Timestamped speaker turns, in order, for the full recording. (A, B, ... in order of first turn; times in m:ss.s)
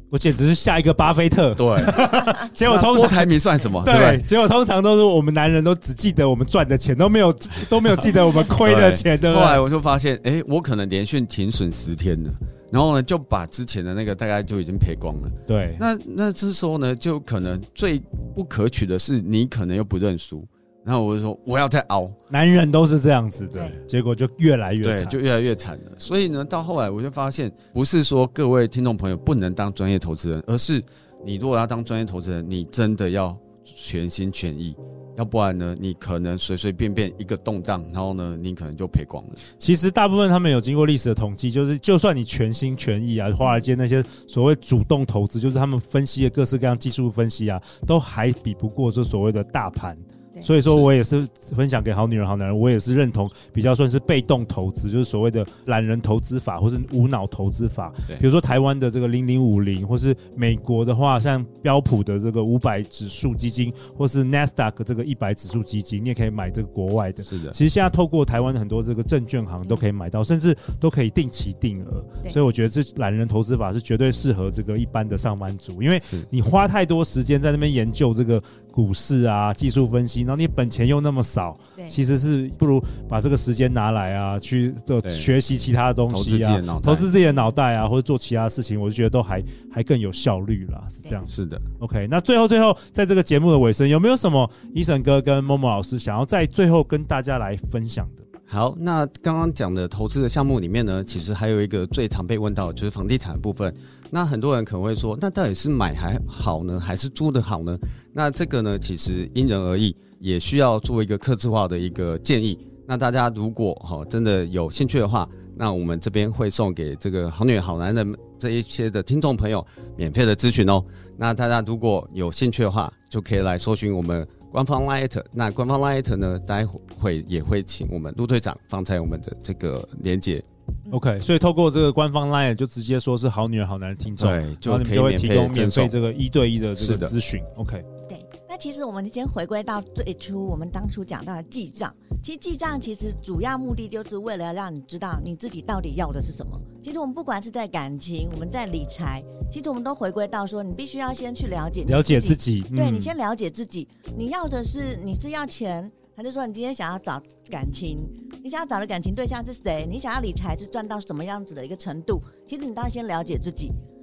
0:00.1-0:03.3 A
0:01.6-0:04.2 B
0:03.8-0:09.6 A
0:08.6-0:22.2 B
0:15.5-0:15.8 A
0:22.3-0:25.2 A
0:23.5-0:23.8 B
0:24.8-0:39.4 B
0:39.6-1:38.2 A
0:50.6-0:50.9 B
1:07.2-1:07.6 B
1:25.0-1:25.3 B
1:26.1-1:27.1 B
1:31.3-1:31.6 B
1:38.5-2:10.4 B
2:10.9-2:17.8 A
2:14.2-2:15.9 B
2:16.8-2:17.1 B
2:18.1-2:43.8 C
2:31.9-2:33.1 A